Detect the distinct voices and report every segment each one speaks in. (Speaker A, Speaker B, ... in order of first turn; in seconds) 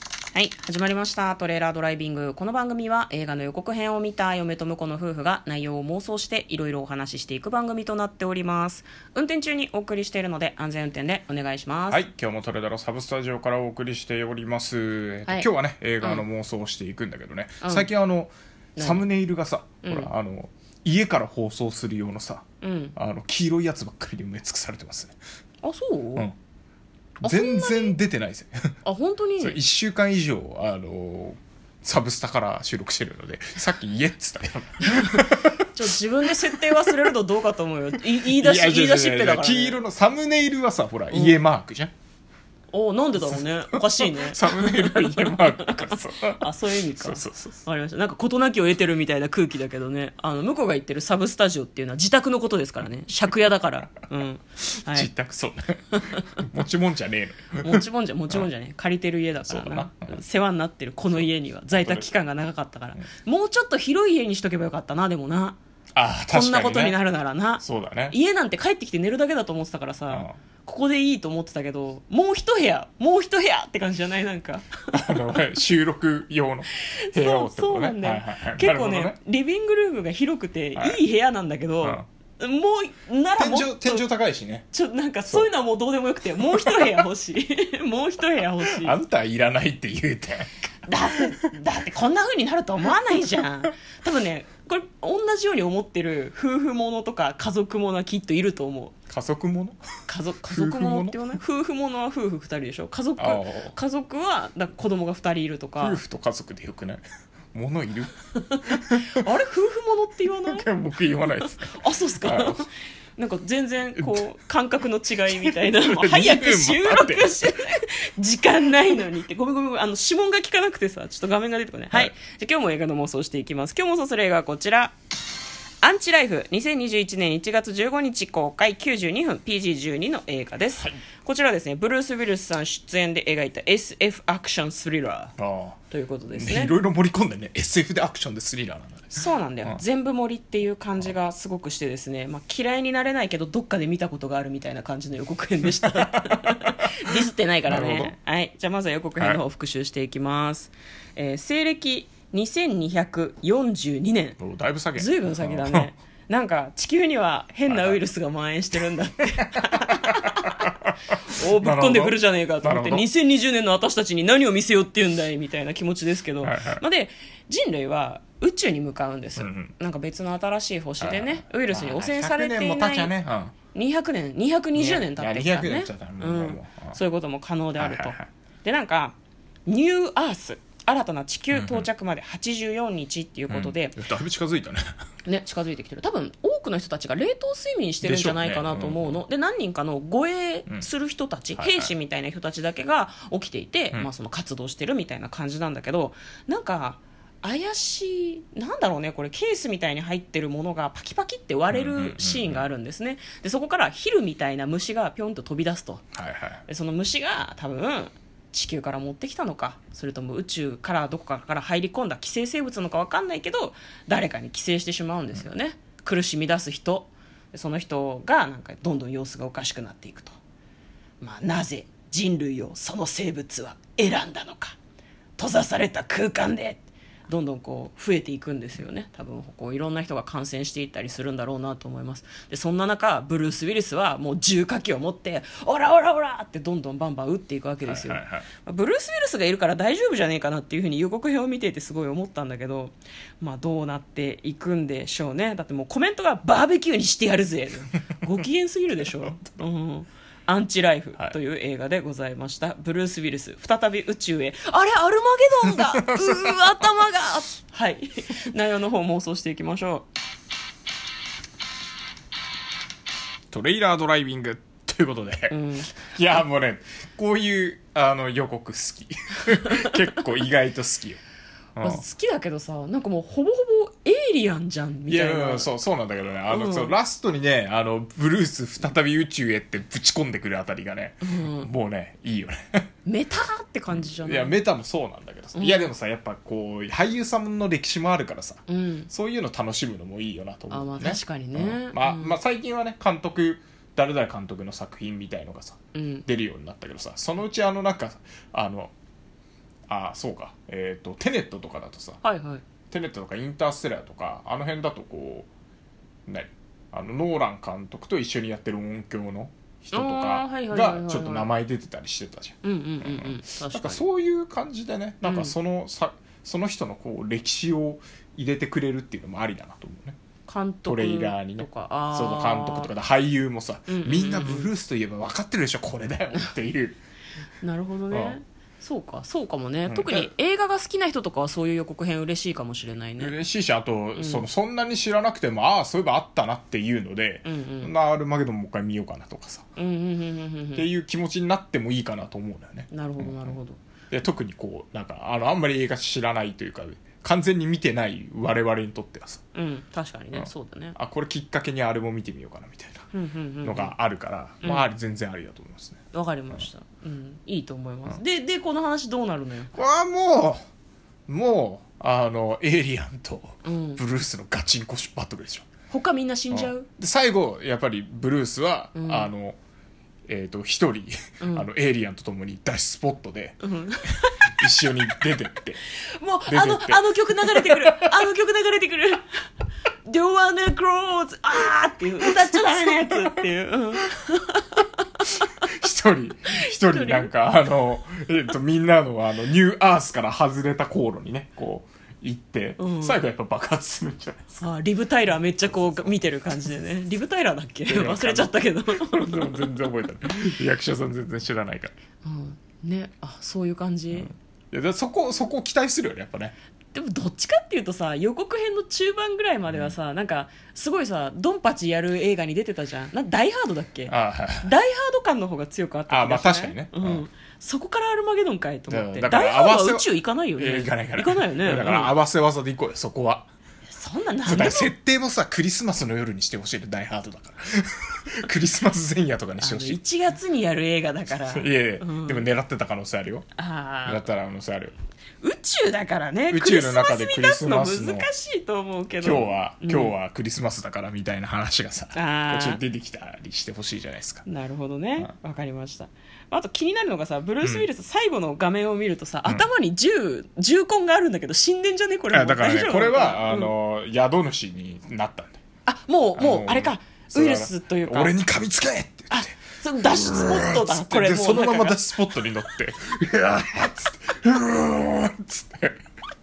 Speaker A: 0.3-12.0, 17.6-17.9, 18.8-19.0, 19.8-20.1, 22.6-22.9, 25.6-26.3, 27.2-28.0, 28.8-29.6, 34.9-39.8, 41.1-41.4, 42.7-55.1, 55.9-56.4, 57.6-65.6, 66.3-75.4, 76.8-84.0, 84.7-89.0, 90.9-99.0, 100.1-106.0, 108.4-110.7, 111.4-124.9, 125.8-135.4, 135.9-136.7, 139.2-154.4, 154.9-160.6, 161.2-173.1, 173.7-184.0, 185.2-206.0, 206.7-220.4, 221.2-224.8, 225.4-260.1, 265.5-265.9, 271.8-275.7, 276.5-276.9, 281.2-281.7, 283.1-284.6, 285.5-285.9, 288.7-289.1, 290.7-292.4, 295.9-296.2, 302.2-302.6, 309.9-311.5, 312.6-314.0, 315.2-315.5, 320.5-322.9, 323.9-324.7, 327.6-333.3, 334.2-334.4, 337.4-337.9, 339.8-340.8, 342.9-343.8, 349.5-351.0, 353.1-353.9, 356.1-359.7, 363.6-364.0, 365.9-366.9, 368.9-369.3, 371.4-371.7, 373.6-374.6, 376.2-379.3, 380.1-385.3, 386.5-387.3, 392.8-393.2, 394.6-399.8, 402.2-404.3, 406.9-422.1, 423.9-424.9, 429.6-432.4, 433.6-434.2, 435.4-440.1, 442.1-442.8, 444.4-453.7, 455.9-458.3, 459.3-462.1
Speaker B: 11.9-22.4, 22.9-25.1, 27.2-28.7, 29.4-37.1, 38.1-41.9, 43.4-47.6, 54.8-58.5, 59.5-60.2, 61.0-62.1, 65.9-67.0, 67.6-68.2, 74.9-79.2, 83.4-84.7, 86.5-87.0, 88.6-90.5, 91.1-91.5, 99.1-99.8, 100.5-101.2, 103.2-103.8, 105.8-107.0, 107.5-109.2, 110.5-112.6, 114.0-114.2, 115.3-117.5, 135.4-135.8, 136.3-139.8, 145.8-147.1, 147.7-148.1, 154.4-155.9, 157.7-158.0, 160.4-163.1, 166.4-166.8, 169.3-169.7, 171.0-173.5, 174.7-177.0, 177.8-178.3, 181.5-181.9, 183.5-185.0, 188.0-189.2, 191.6-191.9, 201.7-202.7, 206.1-206.6, 237.8-238.5, 255.7-256.8, 263.5-271.2, 271.8-272.0, 275.1-282.9, 283.9-298.9, 299.9-302.2, 302.9-305.5, 306.3-320.2, 320.9-327.0, 328.1-328.4, 329.9-330.3, 333.2-339.7, 340.7-343.6, 344.1-349.4, 350.3-353.1, 353.6-356.6, 359.7-360.6, 361.3-365.7, 366.5-369.6, 370.3-375.8, 376.5-378.2, 382.2-383.1, 385.6-394.6, 395.6-396.2, 397.9-401.9, 404.1-406.5, 409.7-409.9, 414.1-414.7, 416.1-417.2, 418.9-423.5, 424.4-430.0, 431.5-433.4, 434.1-434.9, 436.5-438.3, 439.2-444.4, 447.6-447.9, 452.3-455.6, 456.4-459.5, 460.1-466.0